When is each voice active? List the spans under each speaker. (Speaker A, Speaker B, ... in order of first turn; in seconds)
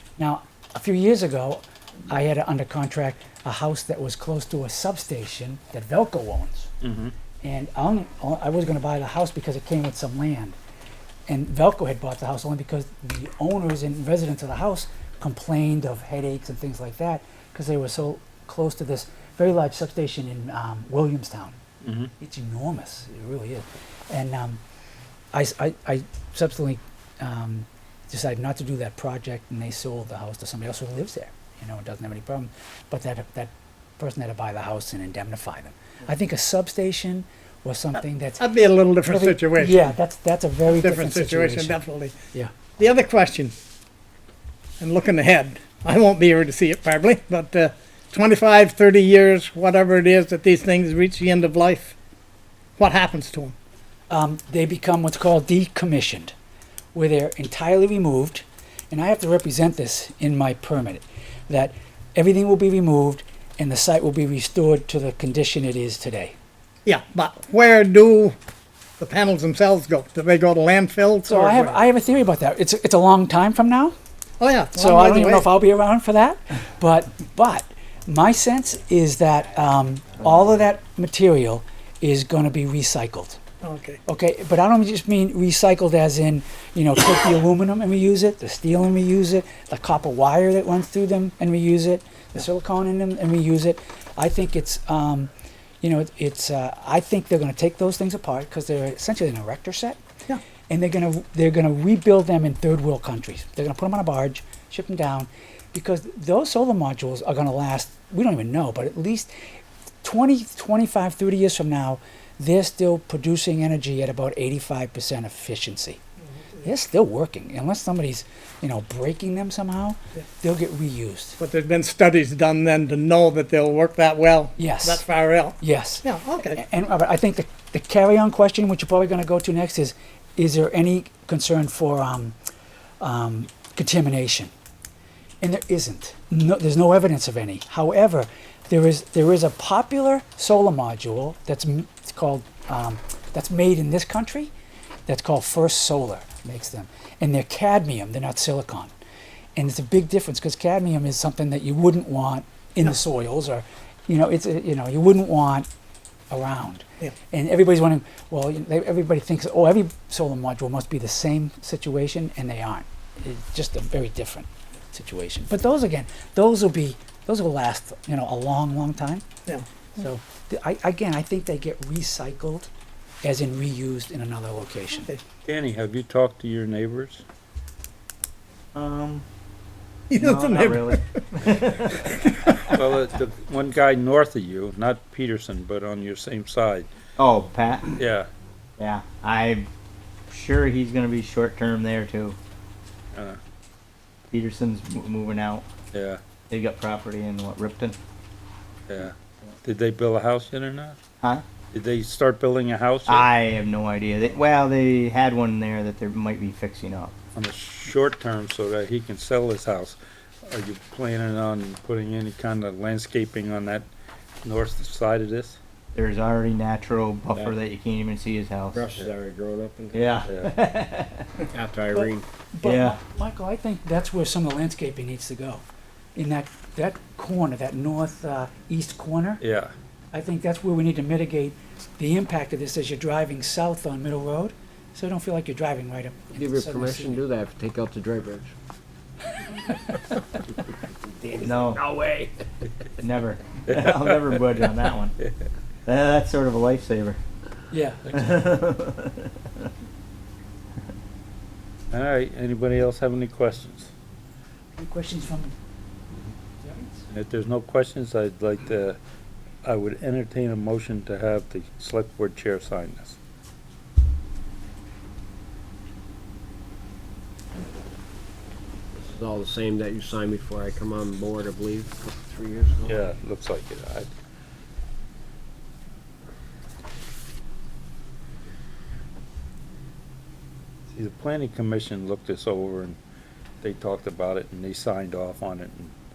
Speaker A: 0.2-6.7, 7.4-10.6, 11.3-21.6, 22.2-24.6, 25.3-38.5, 39.0-41.8, 54.1-56.3, 57.0-66.3, 71.2-73.9, 74.8-83.4, 84.1-95.3, 95.8-100.0, 100.7-109.3, 110.0-116.0, 116.6-121.4, 124.6-125.0, 125.6-132.4, 133.0-134.5, 135.4-144.5, 145.1-148.9, 149.6-155.7, 156.3-169.2, 170.0-172.7, 173.2-175.1, 222.6-225.6, 226.2-229.4, 230.1-237.2, 247.7-248.1, 254.8-255.5, 256.6-257.0
Speaker B: 6.8-7.1, 21.8-22.1, 175.5-177.2, 182.6-186.9, 188.0-188.3, 193.1-193.4, 195.9-196.2, 198.9-201.0, 201.7-203.3, 207.3-213.9, 214.4-215.6, 220.3-220.5, 229.4-229.7, 243.7-244.4, 251.9-253.9, 257.1-259.0, 259.6-263.2, 272.9-274.1, 280.9-283.0, 283.6-285.9
Speaker C: 38.4-40.0, 40.7-42.2, 42.8-43.5, 44.8-52.0, 52.8-53.5, 66.8-68.3, 69.0-71.8, 74.4-75.5, 83.6-84.0, 121.4-126.6, 180.1-181.0
Speaker D: 178.7-179.2, 180.2-182.2, 187.2-188.0, 188.8-189.7, 190.3-192.4, 194.3-195.7, 196.5-198.0, 203.1-207.1, 215.9-218.8, 219.9-221.3, 222.6-223.0, 241.4-241.8, 243.0-245.1, 245.9-247.2, 248.1-249.6
Speaker E: 218.7-220.2, 221.4-222.2, 236.3-238.5, 241.0-242.3, 268.9-273.0